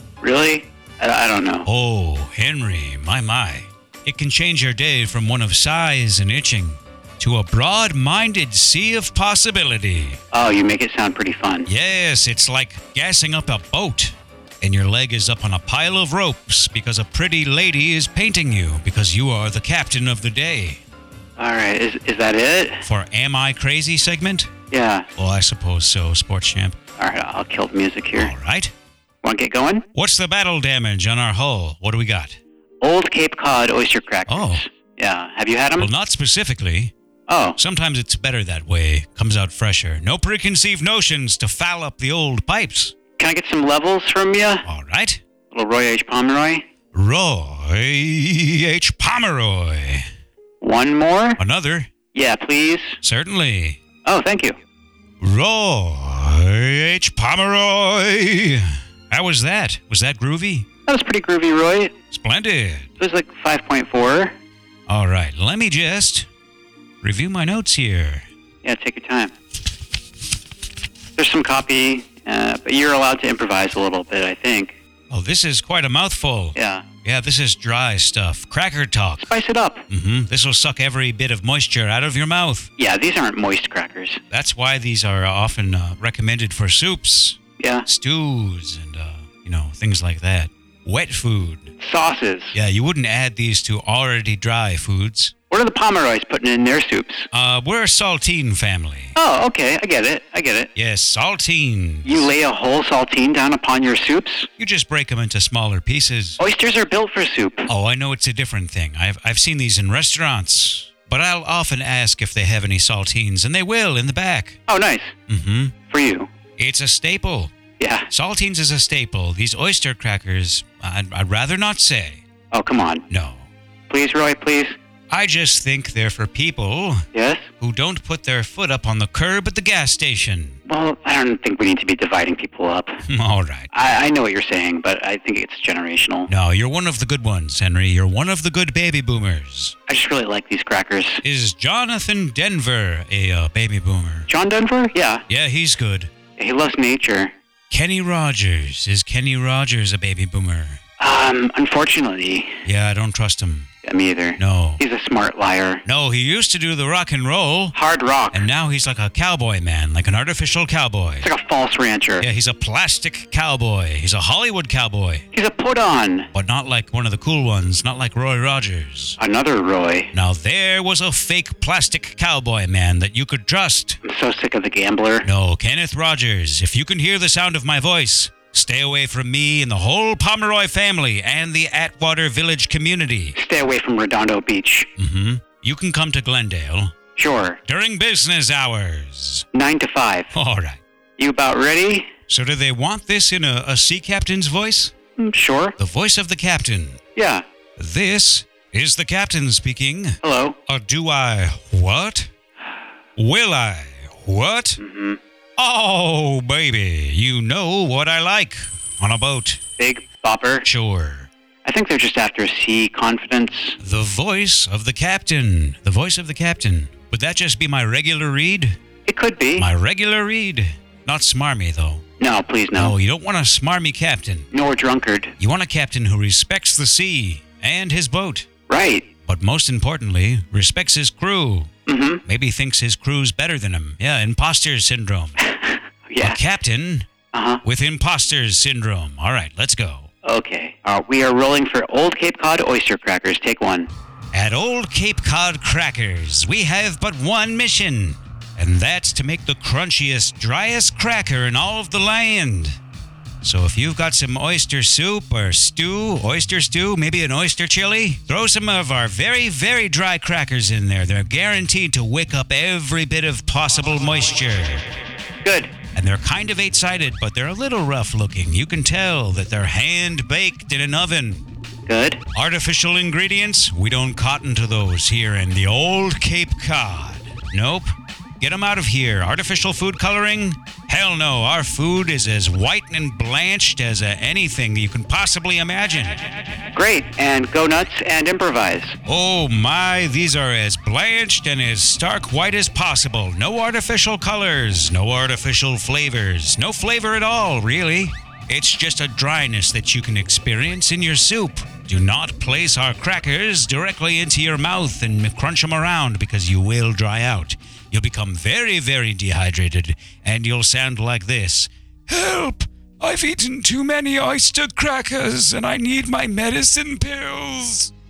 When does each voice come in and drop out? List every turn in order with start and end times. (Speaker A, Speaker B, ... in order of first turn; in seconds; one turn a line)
Speaker A: 0.2-1.7
Speaker B: 1.6-10.2
Speaker A: 10.3-11.7
Speaker B: 11.7-20.8
Speaker A: 21.4-22.9
Speaker B: 22.9-24.5
Speaker A: 24.7-25.1
Speaker B: 25.2-26.8
Speaker A: 27.0-28.3
Speaker B: 28.1-28.7
Speaker A: 29.2-29.9
Speaker B: 29.9-32.4
Speaker A: 32.8-35.9
Speaker B: 34.3-34.6
Speaker B: 35.8-36.9
Speaker A: 37.3-37.6
Speaker B: 37.6-42.9
Speaker A: 43.2-44.7
Speaker B: 44.7-45.2
Speaker A: 45.5-46.6
Speaker B: 46.9-50.1
Speaker A: 50.6-51.4
Speaker B: 51.4-51.9
Speaker A: 52.1-53.0
Speaker B: 53.0-53.8
Speaker A: 54.0-54.6
Speaker B: 55.2-60.7
Speaker A: 60.9-61.9
Speaker B: 62.1-62.9
Speaker A: 63.0-64.3
Speaker B: 64.9-66.3
Speaker B: 67.0-68.3
Speaker A: 68.6-69.3
Speaker A: 71.2-74.8
Speaker B: 75.1-79.3
Speaker A: 76.5-76.9
Speaker A: 79.2-79.9
Speaker B: 79.9-82.7
Speaker A: 82.8-84.2
Speaker B: 84.3-91.7
Speaker A: 87.6-87.9
Speaker A: 91.8-92.5
Speaker B: 92.5-95.3
Speaker A: 95.5-97.3
Speaker B: 97.3-99.2
Speaker A: 99.2-100.7
Speaker B: 100.8-102.3
Speaker A: 102.0-104.5
Speaker B: 104.6-106.4
Speaker A: 106.4-107.7
Speaker B: 107.7-114.6
Speaker A: 114.7-115.1
Speaker B: 115.3-115.8
Speaker A: 115.9-116.3
Speaker B: 116.6-117.5
Speaker A: 117.8-118.1
Speaker B: 118.1-122.2
Speaker A: 122.5-123.0
Speaker B: 123.1-123.5
Speaker A: 123.9-124.8
Speaker B: 125.1-127.1
Speaker A: 127.1-127.5
Speaker B: 127.6-130.6
Speaker A: 130.7-133.0
Speaker B: 133.1-133.7
Speaker A: 133.7-136.3
Speaker B: 136.3-139.8
Speaker A: 139.9-141.2
Speaker B: 141.2-144.3
Speaker A: 144.3-145.2
Speaker B: 145.3-146.1
Speaker A: 146.4-147.3
Speaker B: 147.7-150.8
Speaker A: 151.0-152.6
Speaker B: 152.7-153.7
Speaker A: 153.8-155.8
Speaker B: 154.4-154.8
Speaker B: 155.8-157.8
Speaker A: 157.7-158.5
Speaker B: 158.3-161.3
Speaker A: 161.2-162.3
Speaker B: 162.2-165.2
Speaker A: 165.3-166.3
Speaker B: 166.3-169.2
Speaker A: 169.2-170.1
Speaker B: 170.1-174.0
Speaker A: 174.0-175.3
Speaker B: 175.2-183.4
Speaker A: 183.3-184.9
Speaker B: 185.0-186.9
Speaker A: 187.2-187.6
Speaker B: 187.7-189.5
Speaker A: 189.5-190.3
Speaker B: 190.3-190.8
Speaker A: 191.2-192.1
Speaker B: 192.3-194.9
Speaker A: 195.2-195.8
Speaker B: 195.8-197.0
Speaker A: 197.2-197.4
Speaker B: 197.8-202.3
Speaker A: 200.2-200.6
Speaker B: 203.2-204.8
Speaker A: 204.8-205.2
Speaker B: 205.6-209.6
Speaker A: 209.8-210.7
Speaker B: 210.7-211.3
Speaker A: 211.7-213.8
Speaker B: 213.8-218.8
Speaker A: 219.1-219.7
Speaker B: 219.6-222.0
Speaker A: 222.2-222.9
Speaker B: 222.8-224.5
Speaker A: 224.5-225.3
Speaker B: 225.4-228.5
Speaker A: 228.7-229.1
Speaker B: 229.3-231.7
Speaker A: 231.9-232.2
Speaker B: 232.3-235.4
Speaker A: 235.4-236.4
Speaker B: 236.2-237.1
Speaker A: 237.3-237.6
Speaker B: 237.6-240.1
Speaker A: 240.2-243.9
Speaker B: 244.3-252.8
Speaker B: 253.4-264.8
Speaker A: 265.4-265.7
Speaker B: 265.9-271.4
Speaker A: 271.9-272.2
Speaker B: 272.3-277.9
Speaker B: 278.4-286.2
Speaker A: 286.7-289.0
Speaker B: 289.1-317.9